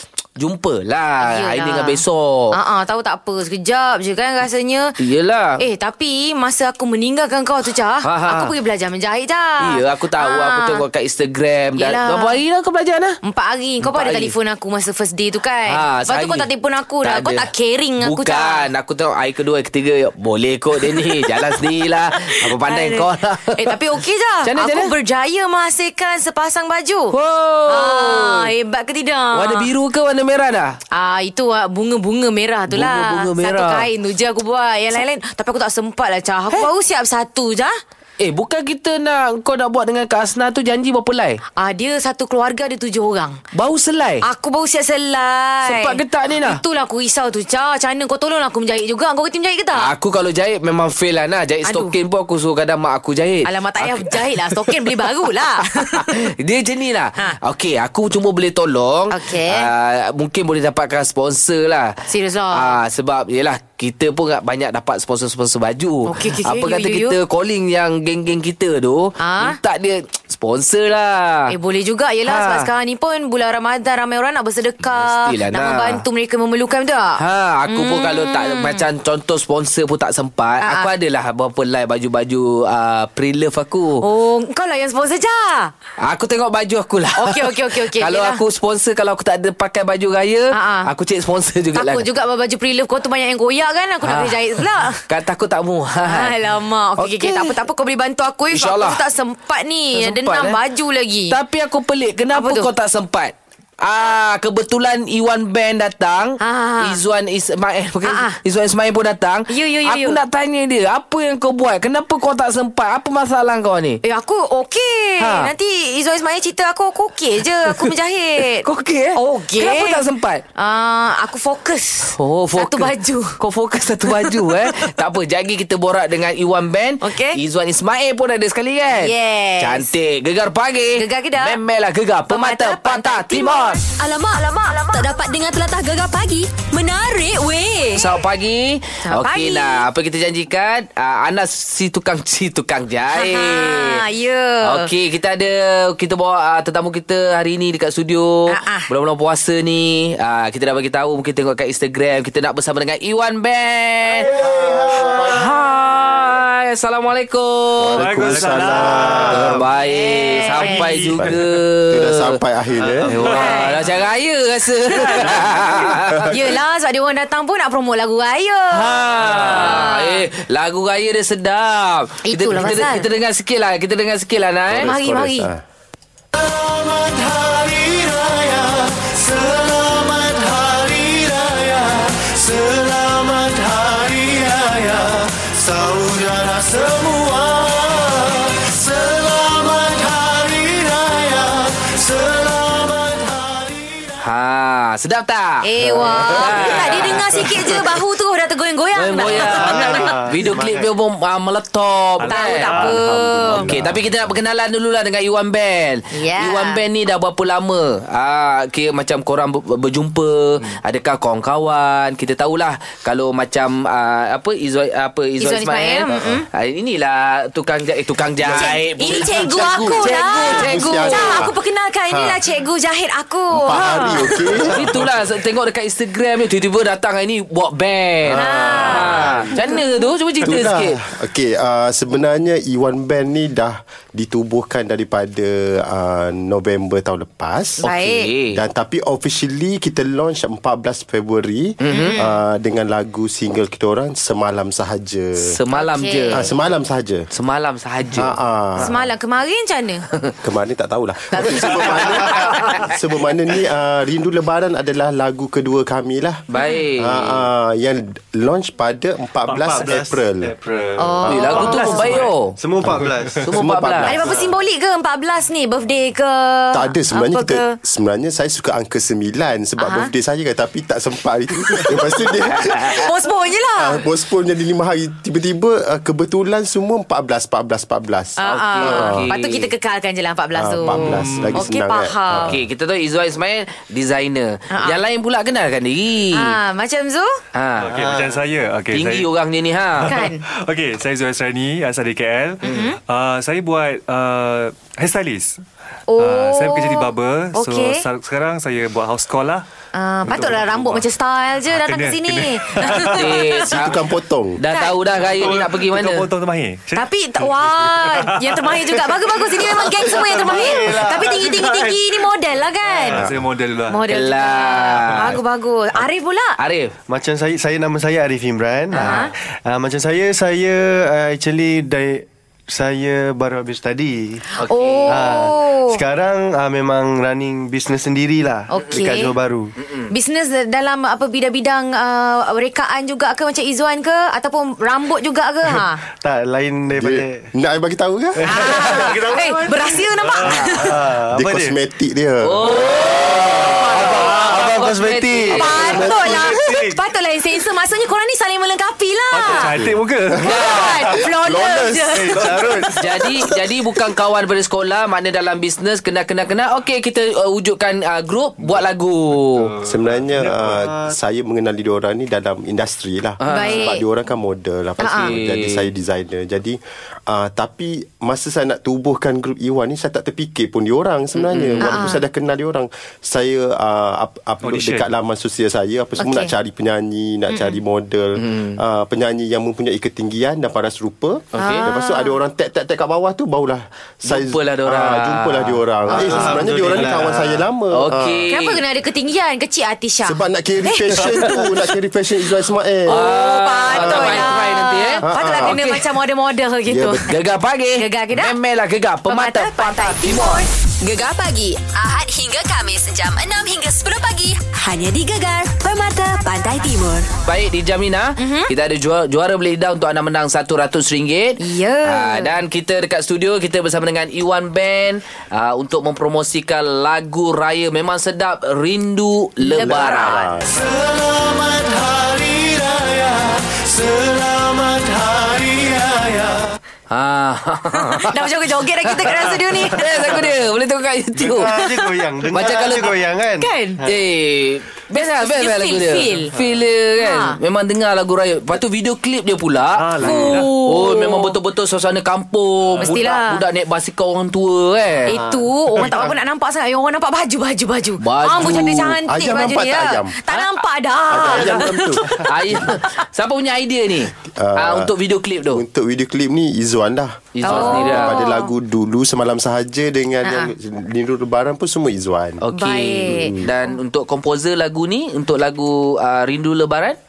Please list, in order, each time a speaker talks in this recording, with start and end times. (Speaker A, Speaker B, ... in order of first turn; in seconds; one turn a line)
Speaker A: 0.4-2.5
Speaker B: 1.2-2.0
Speaker B: 2.5-5.0
Speaker A: 5.0-5.6
Speaker B: 5.6-10.8
Speaker A: 8.0-8.5
Speaker A: 9.6-13.2
Speaker B: 11.8-12.4
Speaker B: 13.2-18.7
Speaker A: 13.8-14.3
Speaker A: 15.7-16.5
Speaker A: 17.0-17.5
Speaker A: 18.0-23.8
Speaker B: 20.8-21.6
Speaker B: 22.2-27.1
Speaker A: 24.4-24.9
Speaker A: 27.1-28.5
Speaker B: 27.7-29.7
Speaker A: 29.3-30.8
Speaker B: 30.9-37.7
Speaker A: 32.7-33.9
Speaker A: 38.2-41.4
Speaker B: 41.6-43.4
Speaker A: 43.5-44.2
Speaker B: 44.2-49.9
Speaker A: 45.6-46.6
Speaker A: 49.7-55.1
Speaker B: 51.6-52.0
Speaker B: 53.4-56.1
Speaker A: 55.8-62.0
Speaker B: 59.1-59.7
Speaker B: 62.1-62.8
Speaker A: 62.5-71.5
Speaker B: 66.1-67.2
Speaker B: 69.2-69.6
Speaker B: 71.5-78.8
Speaker A: 72.3-72.7
Speaker A: 75.0-76.0
Speaker A: 77.2-84.0
Speaker B: 80.6-80.9
Speaker B: 84.0-85.7
Speaker A: 86.0-92.0
Speaker B: 87.2-88.4
Speaker B: 90.5-90.9
Speaker B: 91.7-95.0
Speaker A: 94.0-96.3
Speaker B: 96.0-101.4
Speaker A: 97.0-97.6
Speaker A: 98.5-99.0
Speaker A: 100.0-100.6
Speaker A: 101.3-114.0
Speaker B: 102.3-102.7
Speaker B: 106.4-107.0
Speaker B: 108.0-108.4
Speaker B: 109.5-110.2
Speaker B: 114.0-120.0
Speaker A: 115.2-115.5
Speaker A: 118.6-120.4
Speaker B: 120.5-123.4
Speaker A: 122.2-133.8
Speaker B: 124.1-124.4
Speaker B: 127.0-127.4
Speaker B: 128.9-129.9
Speaker B: 130.9-131.6
Speaker B: 132.3-133.8
Speaker C: 133.9-138.1
Speaker A: 138.0-144.0
Speaker B: 139.1-139.9
Speaker B: 143.1-144.9
Speaker A: 144.6-154.3
Speaker B: 148.5-148.9
Speaker D: 154.1-155.5
Speaker E: 154.3-155.4
Speaker A: 155.3-158.0
Speaker E: 157.8-159.7
Speaker F: 158.0-159.3
Speaker D: 158.2-159.7
Speaker A: 159.3-162.4
Speaker B: 159.8-160.9
Speaker F: 160.6-161.4
Speaker E: 161.1-163.2
Speaker D: 162.8-163.6
Speaker F: 163.1-163.8
Speaker B: 163.2-163.8
Speaker A: 163.3-166.3
Speaker B: 164.9-165.4
Speaker F: 165.0-165.9
Speaker B: 166.2-170.2
Speaker A: 168.7-174.9
Speaker B: 172.2-173.1
Speaker E: 174.7-175.6
Speaker B: 174.8-175.5
Speaker D: 176.3-194.2
Speaker A: 194.2-195.7
Speaker B: 195.6-200.1
Speaker E: 195.8-196.4
Speaker A: 196.3-197.2
Speaker A: 199.0-202.7
Speaker D: 199.3-200.9
Speaker F: 202.2-203.0
Speaker B: 202.2-203.7
Speaker E: 202.6-204.1
Speaker A: 203.7-221.4
Speaker B: 206.1-206.8
Speaker B: 215.4-216.4
Speaker E: 216.1-216.4
Speaker D: 218.4-218.8
Speaker B: 218.6-224.3
Speaker E: 218.9-221.5
Speaker E: 222.1-222.4
Speaker E: 223.5-224.8
Speaker A: 224.7-231.0
Speaker E: 228.3-229.6
Speaker B: 228.4-229.7
Speaker E: 230.4-237.8
Speaker B: 237.8-238.3
Speaker A: 237.8-238.6
Speaker E: 238.5-245.5
Speaker A: 241.8-242.2
Speaker B: 241.9-242.4
Speaker A: 245.4-246.5
Speaker B: 245.7-246.4
Speaker E: 246.3-247.2
Speaker A: 247.3-248.3
Speaker E: 248.2-249.0
Speaker B: 248.8-250.1
Speaker E: 250.4-256.4
Speaker B: 251.3-252.8
Speaker A: 256.5-257.4
Speaker B: 256.6-256.8
Speaker E: 257.0-260.5
Speaker F: 259.5-259.9
Speaker D: 259.5-263.5
Speaker F: 260.7-262.3
Speaker B: 261.0-262.1
Speaker A: 261.3-262.6
Speaker E: 261.3-261.6
Speaker E: 262.8-264.4
Speaker A: 263.4-264.1
Speaker B: 264.1-267.8
Speaker E: 266.7-273.0
Speaker B: 269.8-270.1
Speaker B: 272.8-274.0
Speaker E: 273.8-279.3
Speaker B: 278.4-282.5
Speaker A: 278.4-279.7
Speaker E: 280.6-282.6
Speaker F: 280.9-281.6
Speaker A: 282.5-286.6
Speaker B: 284.7-285.0
Speaker B: 286.3-287.4
Speaker A: 287.5-287.9
Speaker F: 287.8-289.3
Speaker D: 287.9-288.4
Speaker A: 288.9-290.1
Speaker F: 290.0-295.6
Speaker B: 290.1-290.4
Speaker B: 292.6-293.0
Speaker B: 296.1-298.0
Speaker F: 296.2-299.6
Speaker B: 299.9-303.6
Speaker F: 300.2-301.0
Speaker F: 301.7-303.3
Speaker A: 303.2-304.0
Speaker E: 303.7-304.6
Speaker A: 304.6-306.3
Speaker B: 304.7-305.0
Speaker F: 305.2-312.1
Speaker B: 306.9-313.2
Speaker D: 310.0-311.7
Speaker F: 312.9-314.1
Speaker B: 313.9-316.6
Speaker A: 314.1-315.4
Speaker A: 316.6-316.9
Speaker D: 317.1-324.4
Speaker B: 318.9-319.3
Speaker A: 324.6-325.3
Speaker B: 324.6-326.0
Speaker D: 325.1-329.7
Speaker B: 328.7-329.3
Speaker A: 329.8-330.1
Speaker B: 330.1-336.0
Speaker D: 336.2-337.5
Speaker E: 336.9-338.5
Speaker D: 338.4-339.4
Speaker B: 338.5-340.9
Speaker F: 338.9-340.7
Speaker D: 340.4-341.8
Speaker E: 341.3-342.7
Speaker A: 342.4-345.8
Speaker D: 343.0-347.0
Speaker B: 343.7-344.3
Speaker B: 345.5-349.7
Speaker F: 349.3-351.1
Speaker E: 349.7-350.0
Speaker D: 350.4-352.9
Speaker A: 350.5-350.8
Speaker B: 350.5-352.4
Speaker F: 352.3-352.9
Speaker A: 353.0-359.8
Speaker F: 359.5-360.7
Speaker E: 359.8-388.5
Speaker D: 360.8-361.1
Speaker A: 363.4-363.9
Speaker B: 363.5-364.0
Speaker B: 365.0-365.3
Speaker A: 365.2-365.9
Speaker A: 371.4-372.0
Speaker B: 371.8-372.2
Speaker F: 374.6-375.1
Speaker B: 376.2-376.5
Speaker B: 377.5-377.8
Speaker A: 378.4-378.8
Speaker A: 381.5-381.9
Speaker B: 381.6-382.4
Speaker A: 384.2-385.8
Speaker D: 386.1-387.6
Speaker B: 386.1-386.6
Speaker A: 387.9-388.8
Speaker B: 388.5-391.6
Speaker E: 390.2-393.3
Speaker B: 393.1-397.3
Speaker A: 393.1-396.0
Speaker E: 394.0-394.4
Speaker E: 395.2-395.8
Speaker E: 396.9-397.3
Speaker A: 397.3-400.7
Speaker B: 398.0-398.6
Speaker B: 399.3-400.7
Speaker C: 401.0-407.4
Speaker A: 407.4-420.4
Speaker B: 408.4-408.7
Speaker B: 411.6-412.6
Speaker B: 419.6-420.5
Speaker E: 419.8-420.8
Speaker D: 420.7-426.8
Speaker A: 427.1-428.5
Speaker B: 427.9-430.1
Speaker A: 429.1-431.8
Speaker D: 430.0-430.4
Speaker D: 431.4-434.2
Speaker B: 431.8-432.1
Speaker A: 432.5-433.1
Speaker B: 433.6-434.0
Speaker A: 434.1-445.3
Speaker B: 435.4-436.5
Speaker B: 437.2-437.6
Speaker F: 439.9-440.8
Speaker B: 440.2-441.5
Speaker B: 443.0-443.6
Speaker B: 445.3-452.2
Speaker D: 445.3-446.3
Speaker A: 448.2-449.2
Speaker E: 449.2-450.4
Speaker E: 451.3-452.4
Speaker F: 451.6-452.4
Speaker A: 452.4-455.8
Speaker E: 454.6-455.1
Speaker E: 455.7-462.6
Speaker A: 457.6-458.4
Speaker B: 457.6-458.7
Speaker B: 460.4-460.7
Speaker A: 462.6-467.2
Speaker B: 462.7-463.6
Speaker E: 463.3-463.7